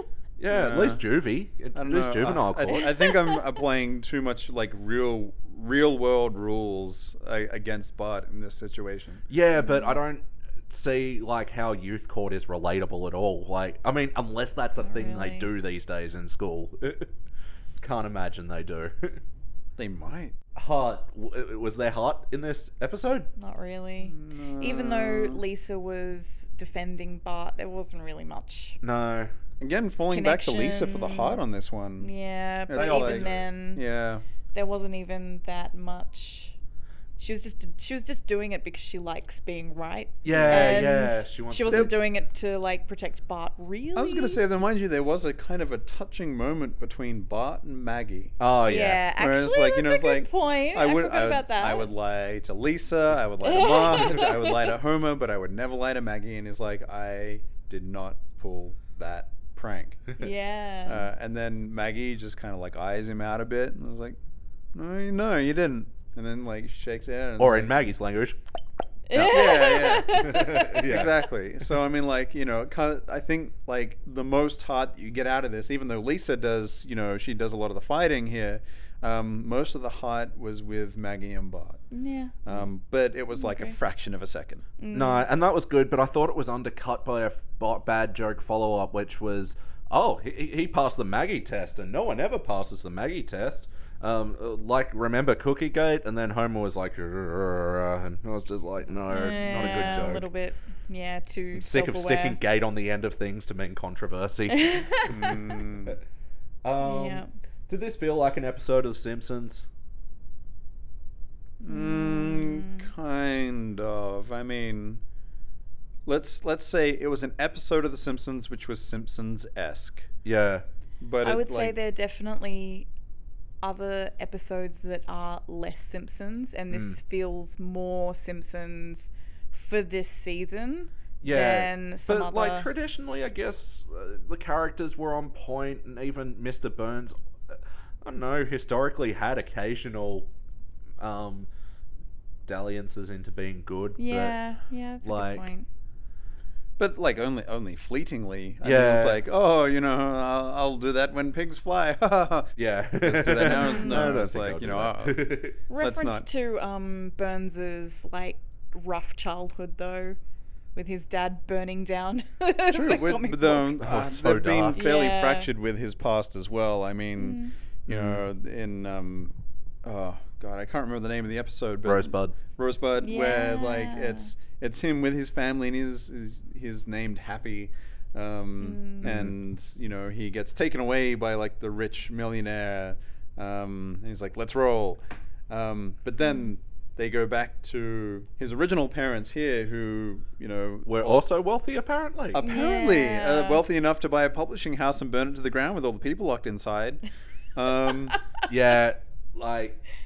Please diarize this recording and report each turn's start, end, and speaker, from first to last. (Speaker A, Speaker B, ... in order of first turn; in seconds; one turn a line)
Speaker A: 0.4-3.0
Speaker B: 0.5-1.0
Speaker B: 1.7-9.2
Speaker C: 2.7-3.4
Speaker A: 9.3-17.1
Speaker C: 9.6-10.0
Speaker C: 14.8-15.5
Speaker A: 17.8-19.2
Speaker B: 19.8-20.4
Speaker A: 20.6-23.3
Speaker C: 23.4-28.8
Speaker B: 24.0-25.4
Speaker A: 28.8-29.3
Speaker B: 29.6-32.1
Speaker C: 30.1-31.4
Speaker C: 32.0-33.8
Speaker B: 32.7-34.2
Speaker A: 32.7-33.5
Speaker C: 34.5-36.6
Speaker C: 37.2-44.4
Speaker A: 40.2-42.0
Speaker B: 40.3-41.0
Speaker B: 41.7-41.9
Speaker B: 44.0-48.4
Speaker A: 48.4-49.0
Speaker C: 48.7-51.9
Speaker B: 49.2-60.0
Speaker C: 53.4-54.7
Speaker C: 60.2-61.1
Speaker B: 60.9-64.2
Speaker B: 64.7-67.8
Speaker A: 67.4-68.4
Speaker C: 69.1-70.9
Speaker A: 69.1-71.3
Speaker B: 69.2-81.8
Speaker C: 81.9-82.7
Speaker B: 82.5-84.7
Speaker C: 83.4-83.8
Speaker C: 84.8-85.2
Speaker A: 84.9-100.3
Speaker C: 99.1-102.4
Speaker A: 101.5-105.1
Speaker C: 104.5-105.4
Speaker B: 105.1-106.0
Speaker A: 106.6-109.7
Speaker C: 106.8-107.3
Speaker B: 111.6-115.0
Speaker C: 111.7-112.9
Speaker B: 116.1-120.1
Speaker A: 120.2-120.7
Speaker B: 121.0-121.8
Speaker C: 121.2-122.9
Speaker C: 123.6-132.7
Speaker A: 126.7-127.0
Speaker A: 131.2-140.3
Speaker A: 141.0-141.5
Speaker A: 142.5-144.4
Speaker C: 144.0-145.7
Speaker A: 145.0-145.4
Speaker B: 146.8-156.3
Speaker A: 148.6-149.2
Speaker A: 152.6-155.6
Speaker C: 153.6-154.1
Speaker C: 155.7-160.2
Speaker C: 160.8-163.8
Speaker B: 162.7-191.3
Speaker A: 163.8-164.8
Speaker C: 164.8-165.5
Speaker C: 167.2-167.5
Speaker A: 167.9-168.2
Speaker A: 171.8-172.4
Speaker C: 173.0-174.3
Speaker C: 178.6-179.1
Speaker A: 179.0-179.3
Speaker A: 190.9-192.4
Speaker B: 192.3-197.0
Speaker C: 192.4-193.6
Speaker B: 197.6-198.2
Speaker A: 198.5-199.8